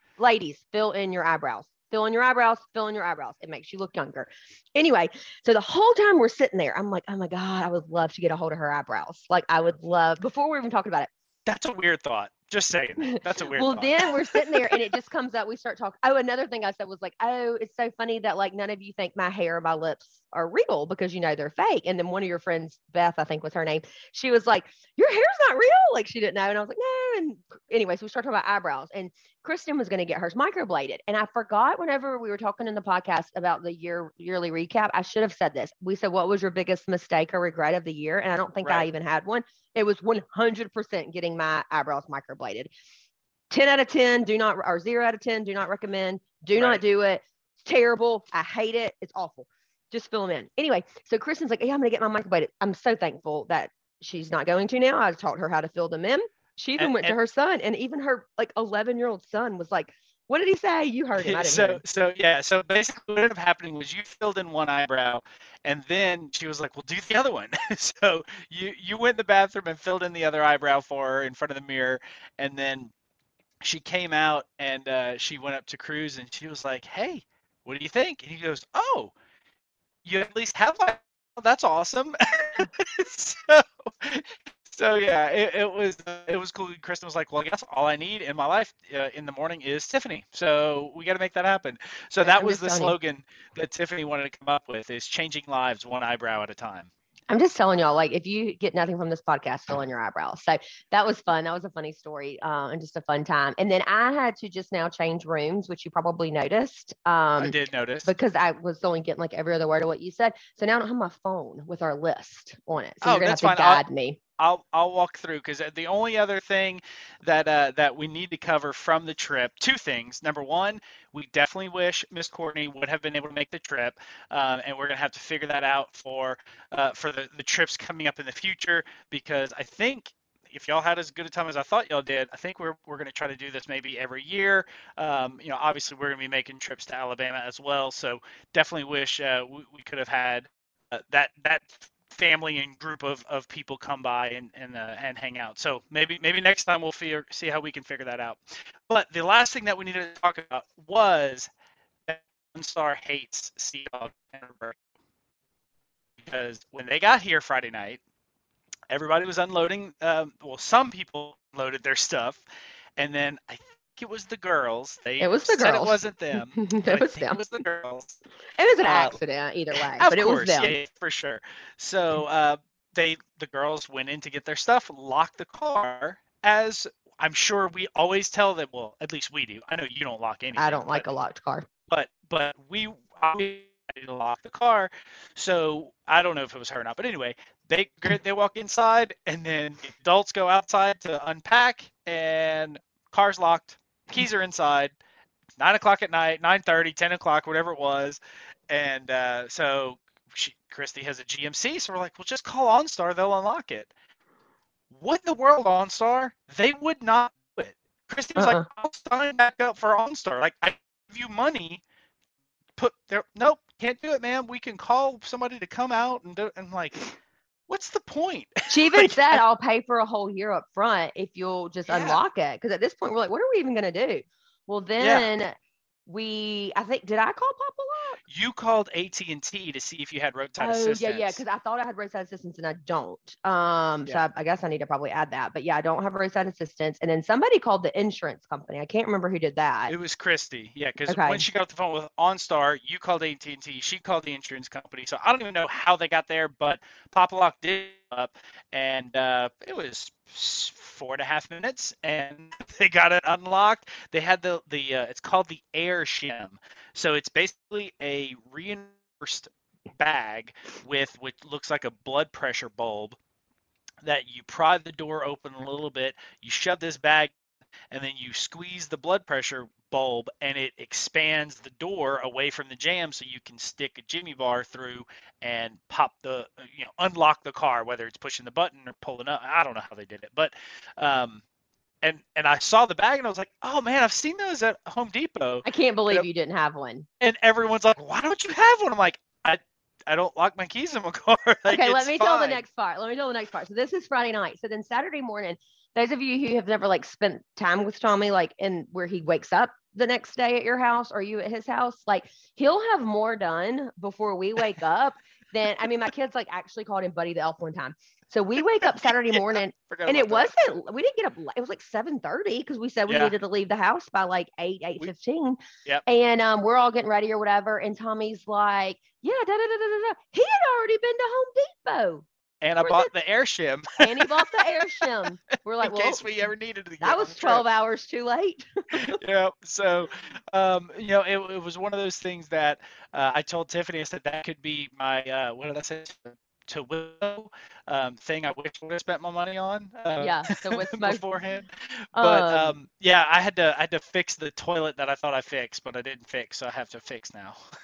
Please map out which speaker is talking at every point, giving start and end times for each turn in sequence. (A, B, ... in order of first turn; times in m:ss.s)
0:00.2-0:11.1 A
0:11.5-0:14.8 B
0:13.1-0:42.7 A
0:43.5-1:01.8 A
0:46.6-0:46.8 B
0:56.8-0:57.1 B
1:01.2-1:12.9 B
1:13.6-1:19.1 B
1:20.0-1:36.9 B
1:32.2-1:32.9 A
1:37.3-1:54.2 A
1:47.4-1:48.1 B
1:53.0-1:53.8 B
1:54.4-2:31.5 B
2:32.1-2:34.8 B
2:36.2-2:38.0 B
2:38.9-2:42.4 B
2:43.0-2:48.2 B
2:45.2-2:47.4 A
2:48.6-2:50.8 A
2:48.8-2:49.2 B
2:49.7-3:01.0 B
3:00.6-3:01.7 A
3:01.9-3:15.0 B
3:15.6-3:23.9 B
3:24.9-3:31.8 B
3:28.4-3:28.7 A
3:32.8-3:37.1 B
3:37.7-3:39.4 B
3:38.7-3:48.2 A
3:41.9-3:42.2 B
3:45.0-3:45.3 B
3:48.3-3:51.4 B
3:50.6-3:59.9 A
3:59.9-4:23.2 B
4:01.1-4:01.4 A
4:24.0-4:27.3 B
4:27.9-4:41.4 B
4:42.0-4:46.3 B
4:45.6-4:47.1 A
4:47.2-4:52.6 B
4:51.7-5:22.3 A
5:09.3-5:10.5 B
5:13.1-5:13.3 B
5:22.6-5:24.3 B
5:22.8-5:23.1 A
5:24.0-5:26.2 A
5:25.8-5:27.6 B
5:27.0-5:29.2 A
5:28.9-5:47.6 B
5:40.2-5:41.2 A
5:42.2-5:42.8 A